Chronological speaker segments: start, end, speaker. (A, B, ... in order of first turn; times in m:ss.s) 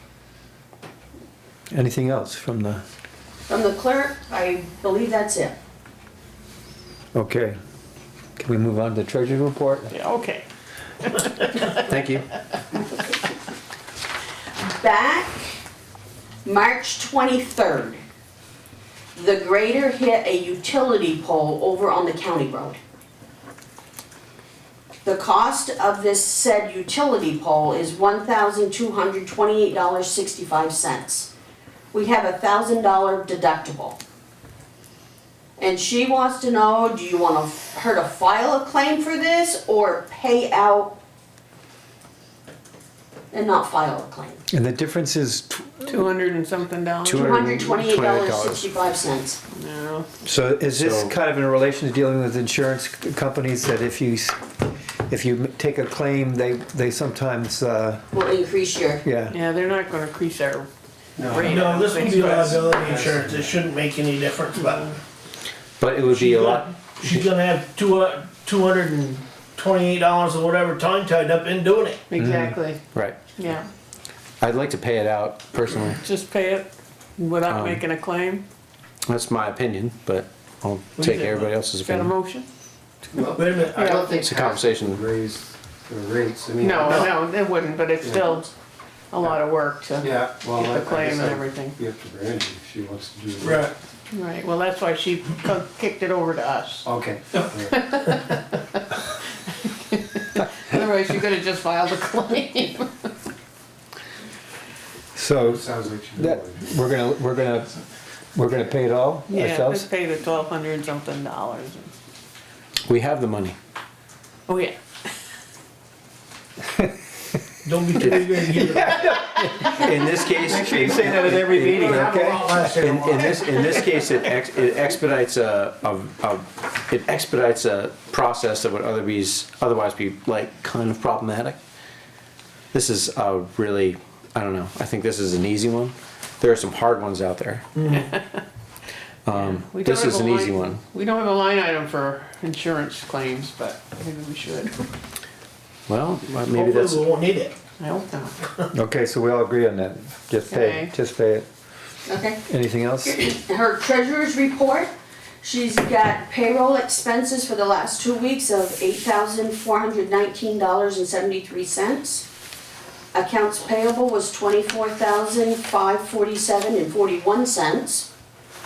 0:01.7-0:02.8 A
0:03.5-0:05.5 B
0:07.1-0:07.6 A
0:08.4-0:09.9 A
0:09.9-0:10.5 C
0:11.1-0:11.7 C
0:11.9-0:12.2 D
0:14.7-0:15.6 B
0:16.4-0:18.0 B
0:19.2-0:22.8 B
0:25.0-0:31.3 B
0:31.9-0:34.0 B
0:35.6-0:41.0 B
0:43.3-0:44.4 B
0:44.5-0:46.0 A
0:45.9-0:47.5 C
0:47.0-0:48.7 D
0:47.1-0:49.4 B
0:49.6-0:50.1 C
0:50.2-0:54.4 A
0:50.8-0:51.1 D
0:55.1-0:58.1 A
0:58.1-0:59.0 B
0:59.0-0:59.4 A
0:59.3-1:00.7 C
1:01.2-1:03.6 E
1:01.3-1:02.9 C
1:01.5-1:04.9 F
1:05.8-1:07.2 D
1:06.1-1:12.0 F
1:12.1-1:12.8 C
1:12.2-1:12.5 A
1:13.4-1:13.7 C
1:14.4-1:16.0 D
1:16.0-1:18.4 C
1:17.5-1:17.8 D
1:19.0-1:22.1 D
1:21.0-1:22.4 C
1:23.1-1:27.1 E
1:23.4-1:23.8 F
1:23.7-1:24.2 C
1:24.1-1:25.0 D
1:26.6-1:28.5 C
1:28.0-1:28.3 E
1:29.1-1:31.8 C
1:30.0-1:33.7 E
1:33.4-1:33.7 F
1:34.1-1:36.8 C
1:36.8-1:37.9 E
1:37.7-1:38.8 C
1:39.6-1:43.1 C
1:45.1-1:45.6 A
1:45.5-1:46.6 E
1:46.2-1:47.7 A
1:48.3-1:49.9 A
1:49.3-1:51.9 C
1:52.8-1:53.6 D
1:54.5-1:54.8 C
1:57.6-1:59.1 F
1:58.0-1:58.4 D
1:58.4-2:02.6 A
1:59.6-2:02.0 D
2:00.6-2:01.7 E
2:01.2-2:03.2 F
2:02.7-2:03.2 E
2:02.8-2:11.6 D
2:12.7-2:17.7 D
2:17.8-2:18.0 F
2:17.9-2:18.4 C
2:19.2-2:20.8 D
2:19.3-2:24.8 C
2:25.9-2:27.1 D
2:26.5-2:27.5 F
2:27.8-2:28.4 C
2:28.7-2:31.5 A
2:30.5-2:30.9 C
2:32.1-2:32.5 B
2:32.5-2:33.2 A
2:33.0-2:42.2 B
2:43.1-2:48.1 B